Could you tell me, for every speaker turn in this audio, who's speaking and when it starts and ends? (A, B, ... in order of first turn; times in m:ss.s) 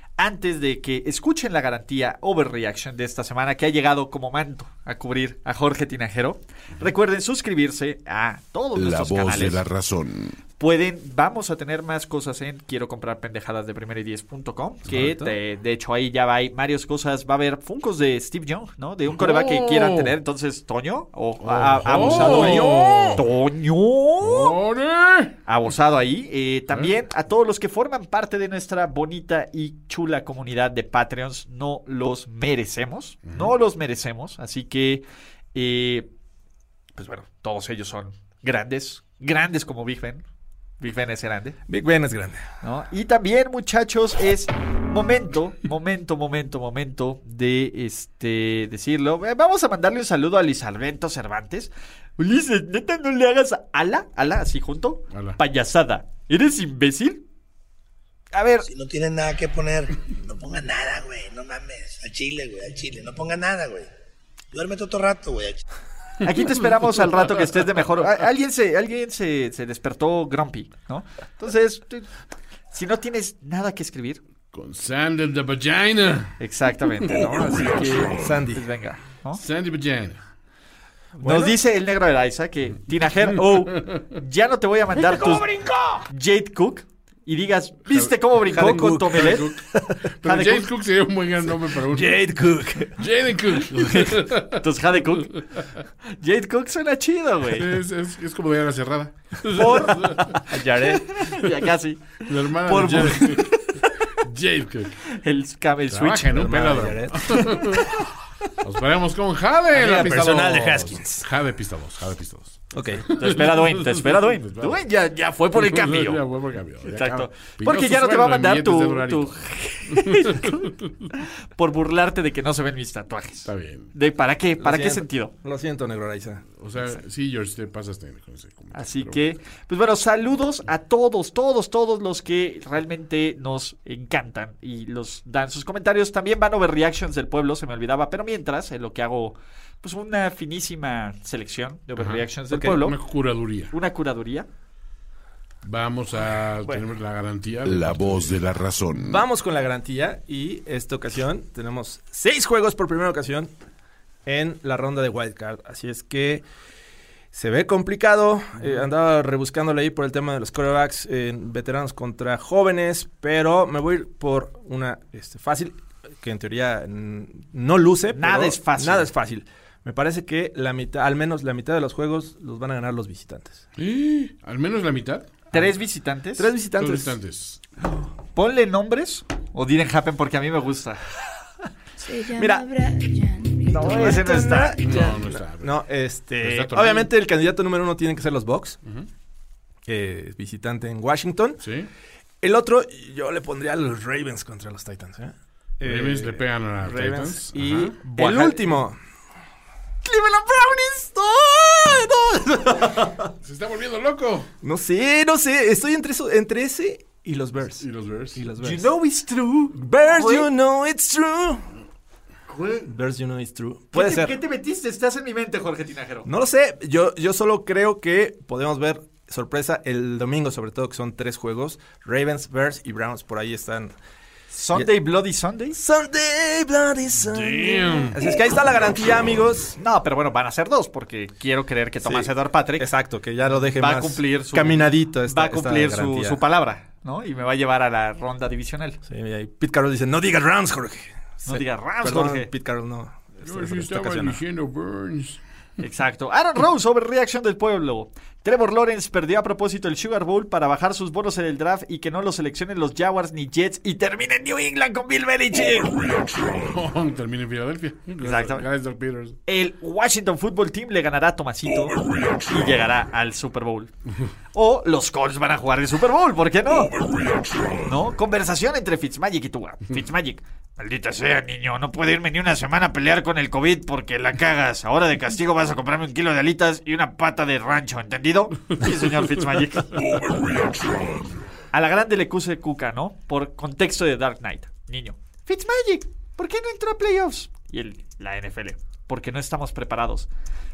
0:00.2-0:09.7 A
0:08.8-0:10.4 B
0:10.6-0:24.6 A
0:14.9-0:15.4 C
0:19.1-0:20.1 D
0:21.4-0:23.2 D
0:21.9-0:23.2 C
0:24.2-0:25.4 D
0:25.5-0:36.1 A
0:33.3-0:33.5 D
0:37.0-0:40.2 A
0:40.8-0:41.6 A
0:41.7-0:42.5 C
0:42.6-0:57.2 A
0:55.1-0:55.4 D
0:58.3-0:58.7 A
0:58.6-1:03.9 E
1:04.5-1:05.6 E
1:06.2-1:12.1 A
1:12.7-1:14.2 A
1:14.5-1:16.4 D
1:16.4-1:19.4 A
1:17.6-1:18.6 C
1:19.3-1:20.2 D
1:21.2-1:21.6 C
1:21.2-1:29.5 A
1:23.3-1:24.0 D
1:27.9-1:29.6 D
1:28.5-1:30.0 C
1:30.2-1:32.2 D
1:30.2-1:30.7 A
1:31.8-1:33.0 C
1:33.0-1:34.6 D
1:33.8-1:35.4 A
1:35.4-1:35.6 D
1:36.1-1:37.8 A
1:37.5-1:40.4 D
1:39.5-1:40.4 A
1:40.5-1:41.1 C
1:41.0-1:43.8 A
1:42.3-1:43.6 D
1:44.2-1:45.0 D
1:45.2-1:46.5 A
1:45.9-1:48.0 D
1:46.3-1:47.4 C
1:48.6-1:54.8 D
1:49.7-1:51.3 C
1:52.7-1:53.1 C
1:53.2-1:56.2 A
1:55.5-1:59.4 D
1:56.9-2:00.7 A
1:59.9-2:00.9 D
2:01.6-2:05.3 A
2:03.5-2:03.9 D
2:04.6-2:06.5 C
2:06.6-2:09.3 D
2:08.7-2:23.0 A
2:22.0-2:23.7 D
2:22.5-2:22.8 C
2:23.7-2:24.5 A
2:25.6-2:28.4 D
2:27.6-2:29.2 B
2:29.0-2:33.5 C
2:34.3-2:36.4 C
2:37.3-2:53.6 C
2:48.2-2:49.1 A
2:53.8-2:55.7 D
2:55.5-2:56.5 A
2:56.4-2:57.2 C
2:56.8-2:57.6 D
2:58.3-3:01.0 A
3:02.0-3:02.7 C
3:02.0-3:04.6 F
3:03.7-3:04.8 A
3:03.7-3:08.8 C
3:04.8-3:05.8 D
3:06.4-3:07.1 D
3:09.9-3:11.6 C
3:11.6-3:11.9 D
3:12.4-3:19.0 C
3:15.8-3:18.0 D
3:18.1-3:18.6 A
3:20.1-3:21.7 A
3:21.7-3:23.2 C
3:23.4-3:24.5 D
3:24.6-3:28.9 C
3:27.8-3:28.4 D
3:28.6-3:30.5 A
3:29.8-3:31.6 C
3:32.5-3:32.9 A
3:32.8-3:34.3 C
3:33.9-3:36.3 A
3:36.3-3:44.0 C
3:44.5-3:45.8 A
3:45.8-3:49.8 C
3:47.2-3:48.2 D
3:49.8-3:52.9 A
3:52.0-3:56.4 C
3:53.7-3:59.0 A
3:59.1-4:04.4 C
4:01.5-4:02.5 A
4:03.4-4:05.4 D
4:05.8-4:16.0 A
4:16.6-4:19.4 D
4:18.2-4:18.7 A
4:19.5-4:23.9 A
4:24.5-4:26.9 A
4:27.9-4:40.0 A
4:41.7-4:50.3 A